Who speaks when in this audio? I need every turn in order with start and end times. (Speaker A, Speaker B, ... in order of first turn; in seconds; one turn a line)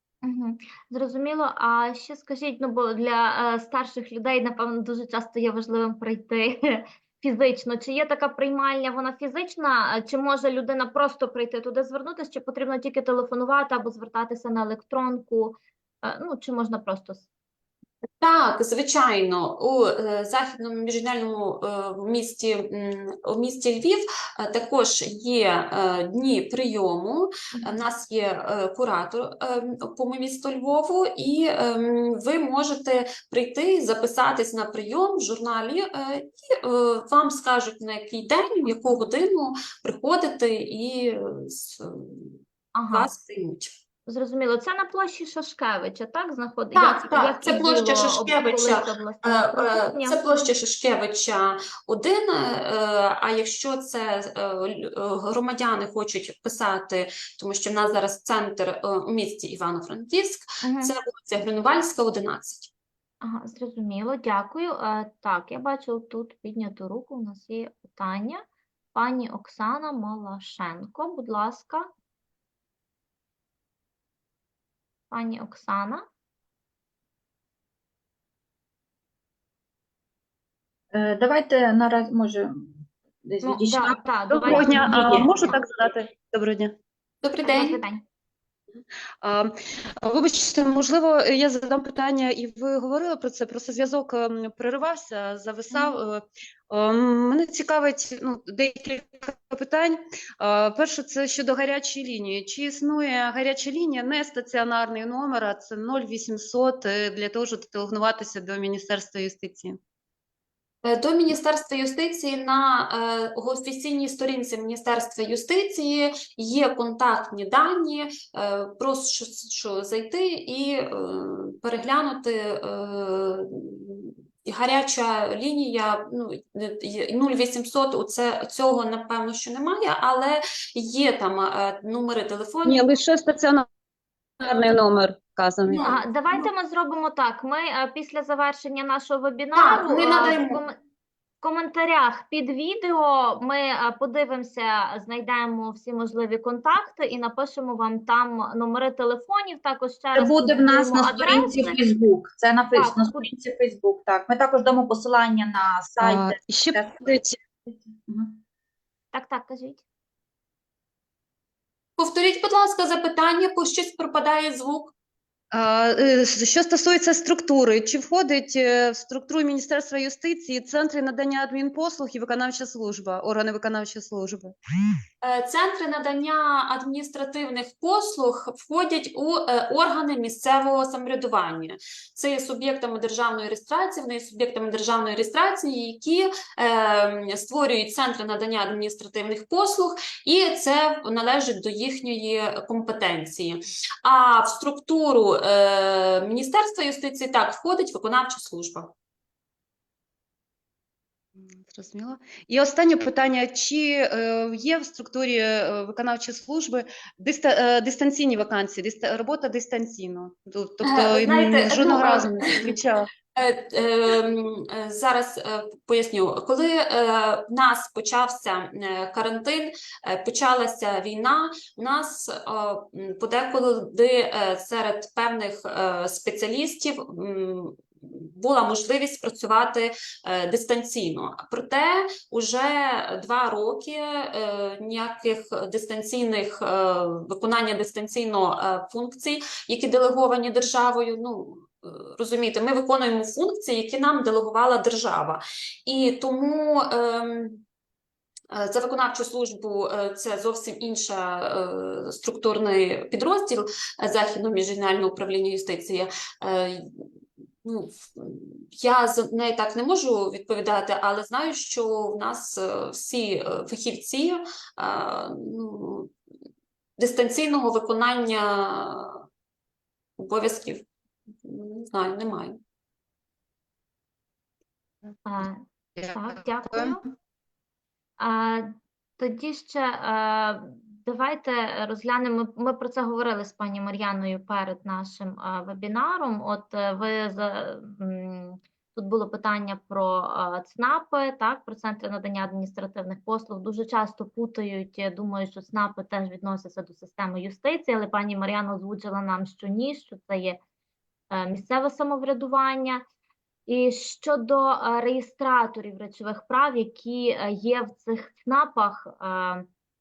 Speaker A: 0.2-17.3
Speaker B: 18.2-43.7
Speaker A: 27.5-27.8
Speaker A: 42.7-43.1
Speaker A: 44.1-50.2
Speaker B: 46.7-62.7
Speaker A: 60.6-60.9
Speaker A: 63.2-71.9
Speaker A: 75.1-76.0
Speaker C: 80.9-85.5
Speaker A: 83.4-85.6
Speaker D: 84.3-86.8
Speaker B: 87.2-87.8
Speaker A: 87.5-88.0
Speaker D: 89.2-109.8
Speaker B: 110.8-132.8
Speaker D: 132.7-133.7
Speaker D: 134.4-136.0
Speaker B: 135.7-136.4
Speaker A: 135.8-140.8
Speaker B: 139.6-140.6
Speaker A: 141.4-151.8
Speaker C: 150.2-157.1
Speaker A: 152.8-153.3
Speaker D: 156.0-157.4
Speaker C: 157.7-158.4
Speaker A: 159.1-159.8
Speaker B: 162.0-164.9
Speaker D: 165.5-174.5
Speaker B: 175.2-198.9
Speaker D: 201.4-213.1
Speaker B: 210.8-212.8
Speaker B: 213.3-247.6
Speaker B: 248.5-257.1
Speaker B: 257.6-266.1
Speaker B: 267.0-269.2
Speaker B: 270.2-270.9
Speaker B: 271.4-272.6
Speaker A: 275.2-277.0
Speaker D: 276.0-277.0
Speaker A: 278.2-300.6
Speaker A: 301.3-303.0
Speaker A: 303.7-309.7